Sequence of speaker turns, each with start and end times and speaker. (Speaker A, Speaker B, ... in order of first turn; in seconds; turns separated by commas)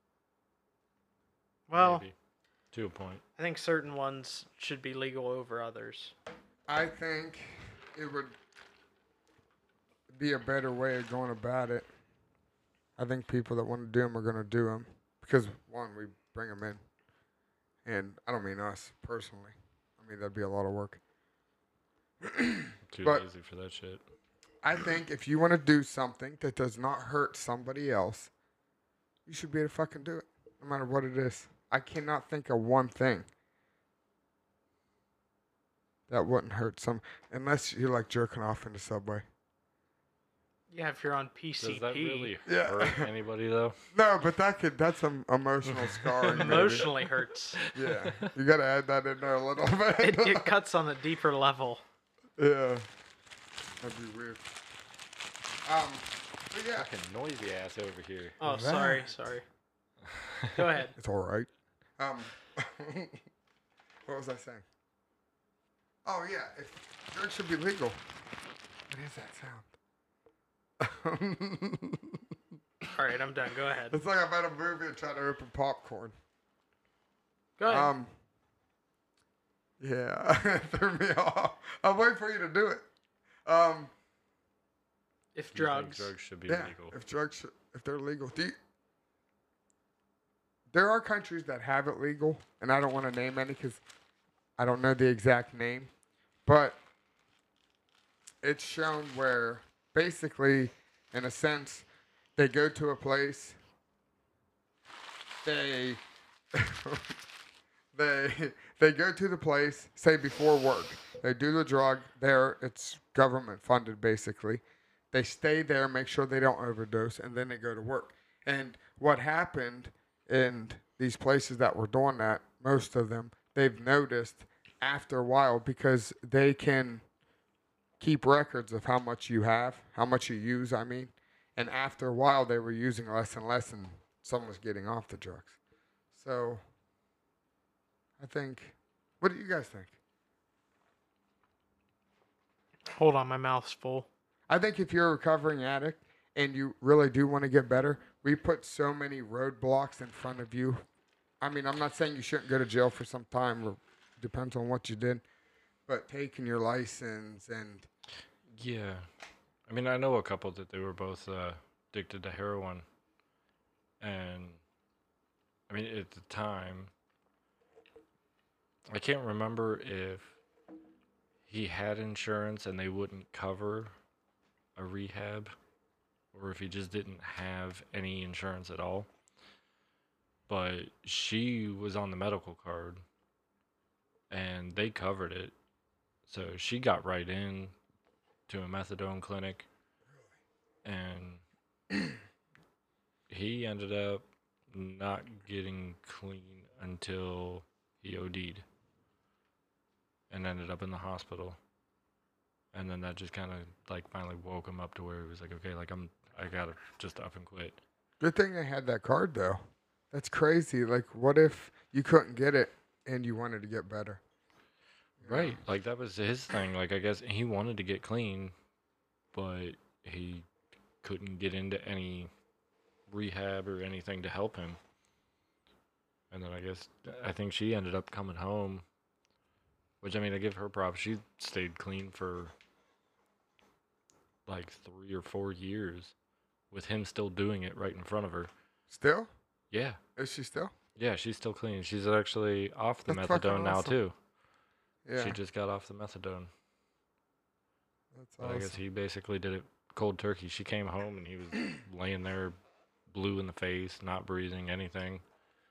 Speaker A: 1.7-2.0, Speaker B: 1.7-2.1, Speaker B: 2.7-3.2, Speaker A: 3.4-6.1, Speaker C: 6.7-8.3, Speaker C: 10.1-11.9, Speaker C: 13.0-16.8, Speaker C: 17.9-21.0, Speaker C: 22.2-23.3, Speaker B: 22.9-24.0, Speaker C: 24.6-28.3, Speaker C: 29.3-33.3, Speaker C: 36.1-39.2, Speaker A: 40.7-42.3, Speaker B: 41.6-43.8, Speaker C: 42.5-43.1, Speaker C: 43.9-46.9, Speaker B: 45.7-46.9, Speaker A: 46.4-47.6, Speaker B: 47.6-48.3, Speaker C: 47.7-50.5, Speaker A: 50.0-51.8, Speaker C: 52.4-52.9, Speaker C: 53.8-54.5, Speaker C: 55.7-56.9, Speaker B: 56.8-58.4, Speaker A: 58.4-59.5, Speaker C: 58.4-59.2, Speaker B: 60.1-60.5, Speaker A: 60.5-61.0, Speaker C: 61.0-63.2, Speaker C: 64.1-64.7, Speaker C: 66.0-68.0, Speaker C: 68.9-69.7, Speaker C: 70.8-72.3, Speaker A: 72.8-74.0, Speaker C: 73.9-76.1, Speaker A: 77.6-77.9, Speaker C: 77.7-78.1, Speaker C: 79.8-82.9, Speaker C: 83.5-83.9, Speaker A: 85.3-86.1, Speaker B: 85.5-87.0, Speaker C: 86.5-88.6, Speaker C: 90.7-93.8, Speaker C: 94.6-95.9, Speaker C: 96.5-96.8, Speaker C: 98.4-103.6, Speaker C: 105.4-106.0, Speaker C: 106.5-107.1, Speaker C: 107.9-127.0, Speaker C: 128.0-135.6, Speaker C: 136.1-136.6, Speaker C: 138.2-140.0, Speaker A: 142.9-144.1, Speaker C: 144.5-150.8, Speaker C: 151.4-155.2, Speaker C: 155.9-157.9, Speaker B: 158.6-159.1, Speaker B: 159.7-162.8, Speaker B: 164.0-164.6, Speaker B: 165.7-166.9, Speaker B: 168.9-170.4, Speaker B: 171.5-173.9, Speaker B: 174.8-175.5, Speaker B: 176.3-179.1, Speaker B: 180.5-183.0, Speaker B: 184.3-185.5, Speaker B: 186.3-187.7, Speaker B: 188.5-189.7, Speaker B: 190.8-191.4, Speaker B: 193.3-198.7, Speaker B: 200.3-201.6, Speaker B: 202.7-207.8, Speaker C: 208.2-209.6, Speaker C: 210.1-214.2, Speaker C: 215.2-215.6, Speaker B: 215.2-218.5, Speaker B: 219.3-220.5, Speaker B: 221.0-222.3, Speaker B: 223.1-224.8, Speaker B: 226.3-228.8, Speaker B: 230.0-232.5, Speaker B: 234.5-236.1, Speaker B: 236.7-238.5, Speaker C: 238.9-239.3, Speaker B: 239.7-240.0, Speaker C: 240.2-240.7, Speaker B: 241.0-244.2, Speaker C: 243.1-244.0, Speaker C: 245.1-245.4, Speaker B: 245.2-246.5, Speaker C: 248.1-248.8, Speaker B: 248.4-252.6, Speaker B: 253.1-255.2